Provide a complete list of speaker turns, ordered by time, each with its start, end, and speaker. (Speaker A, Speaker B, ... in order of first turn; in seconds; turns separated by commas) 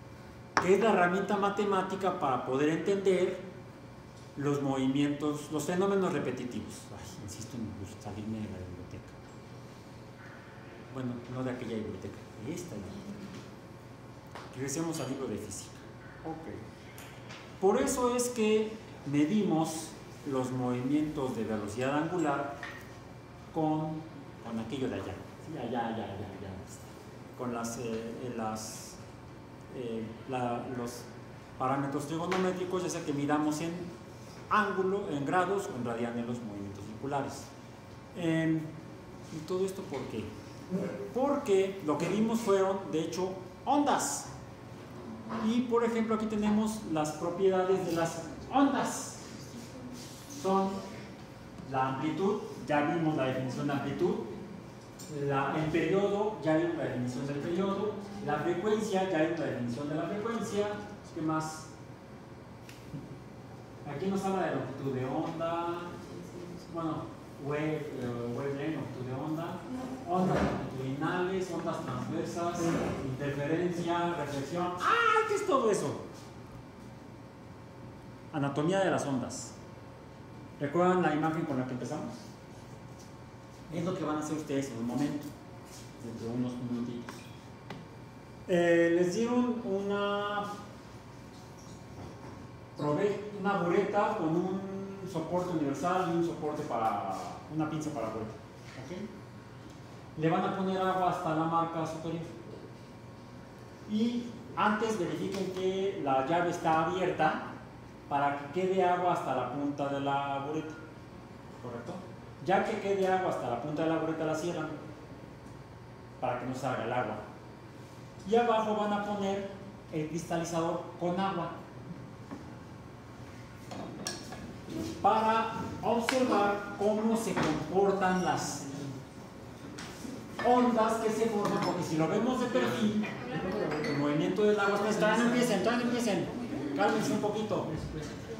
Speaker A: 0.6-3.5, Speaker A: 4.3-9.1, Speaker A: 10.9-13.1, Speaker A: 14.5-16.6, Speaker A: 17.6-22.6, Speaker A: 23.5-29.0, Speaker A: 29.7-31.1, Speaker A: 31.6-33.9, Speaker A: 34.5-37.5, Speaker A: 38.1-38.7, Speaker A: 39.3-44.3, Speaker A: 45.4-49.3, Speaker A: 50.3-50.8, Speaker A: 51.6-54.3, Speaker A: 55.1-61.7, Speaker A: 63.8-66.0, Speaker A: 66.7-76.0, Speaker A: 78.3-79.5, Speaker A: 80.6-82.2, Speaker A: 83.7-85.3, Speaker A: 86.0-87.2, Speaker A: 88.5-90.5, Speaker A: 92.8-99.1, Speaker A: 100.2-102.4, Speaker A: 103.9-107.5, Speaker A: 108.1-110.8, Speaker A: 111.6-114.8, Speaker A: 116.2-117.2, Speaker A: 118.2-121.6, Speaker A: 125.0-128.8, Speaker A: 130.4-137.7